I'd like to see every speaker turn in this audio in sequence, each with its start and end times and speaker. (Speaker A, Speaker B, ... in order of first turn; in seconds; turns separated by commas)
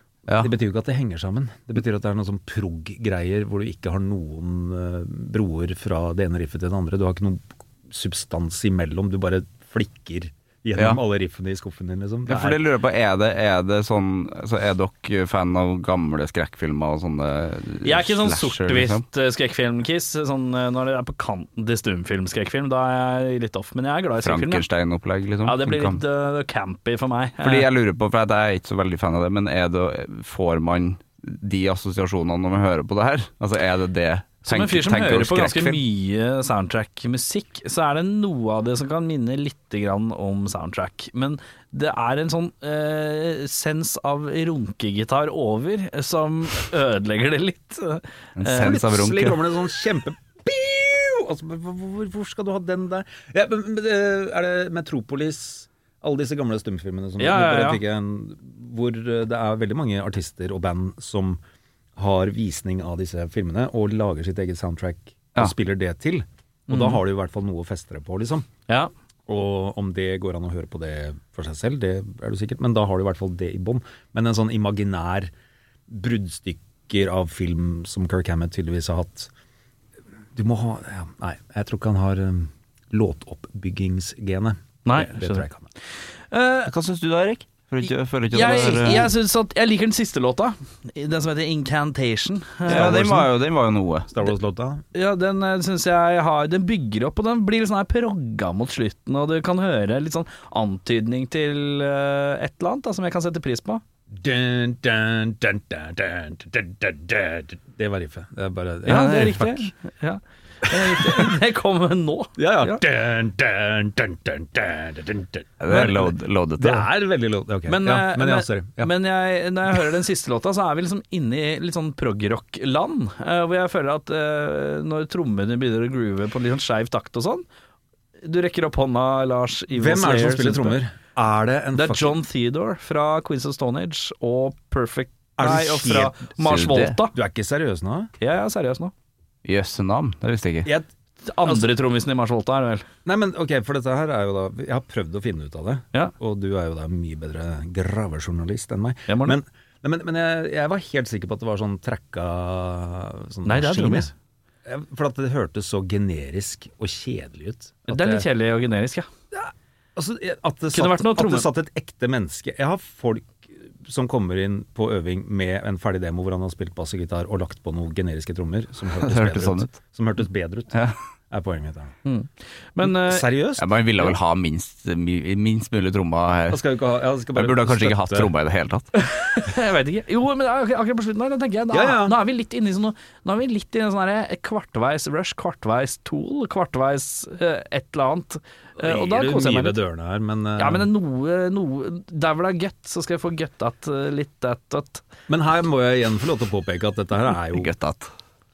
Speaker A: 0.3-12.6, Speaker B: 12.3-19.0, Speaker C: 17.8-24.6, Speaker B: 24.2-26.0, Speaker C: 25.4-27.7, Speaker B: 27.4-35.8, Speaker C: 34.5-48.7, Speaker B: 48.4-49.4, Speaker A: 48.5-61.4, Speaker C: 57.2-57.8, Speaker A: 62.0-68.5, Speaker C: 66.7-67.0, Speaker A: 69.3-75.3, Speaker A: 75.9-79.3, Speaker A: 80.3-85.7, Speaker C: 84.8-85.5, Speaker C: 86.3-86.7, Speaker B: 86.7-89.1, Speaker C: 88.3-93.3, Speaker B: 92.7-94.1, Speaker A: 92.7-93.2, Speaker A: 94.1-94.8, Speaker C: 94.9-103.8, Speaker A: 104.1-109.5, Speaker C: 108.9-112.8, Speaker B: 109.0-109.4, Speaker A: 110.7-111.3, Speaker A: 112.4-118.9, Speaker B: 115.6-116.9, Speaker C: 117.7-127.5, Speaker C: 128.2-130.8, Speaker A: 129.7-132.2, Speaker C: 131.8-137.2, Speaker A: 135.4-136.2, Speaker B: 136.4-137.0, Speaker A: 137.1-138.1, Speaker C: 138.2-138.9, Speaker B: 139.4-140.7, Speaker C: 141.2-142.8, Speaker A: 143.1-154.1, Speaker C: 149.1-149.4, Speaker C: 153.4-154.1, Speaker A: 154.7-158.3, Speaker C: 157.9-159.1, Speaker A: 159.3-171.9, Speaker C: 160.7-161.5, Speaker B: 169.0-169.7, Speaker C: 172.1-173.3, Speaker A: 172.8-174.2, Speaker B: 173.6-176.6, Speaker A: 176.5-178.3, Speaker B: 177.3-178.9, Speaker C: 179.0-189.8, Speaker A: 181.7-182.2, Speaker A: 188.8-190.9, Speaker C: 190.6-195.1, Speaker A: 195.3-197.7, Speaker B: 197.5-198.1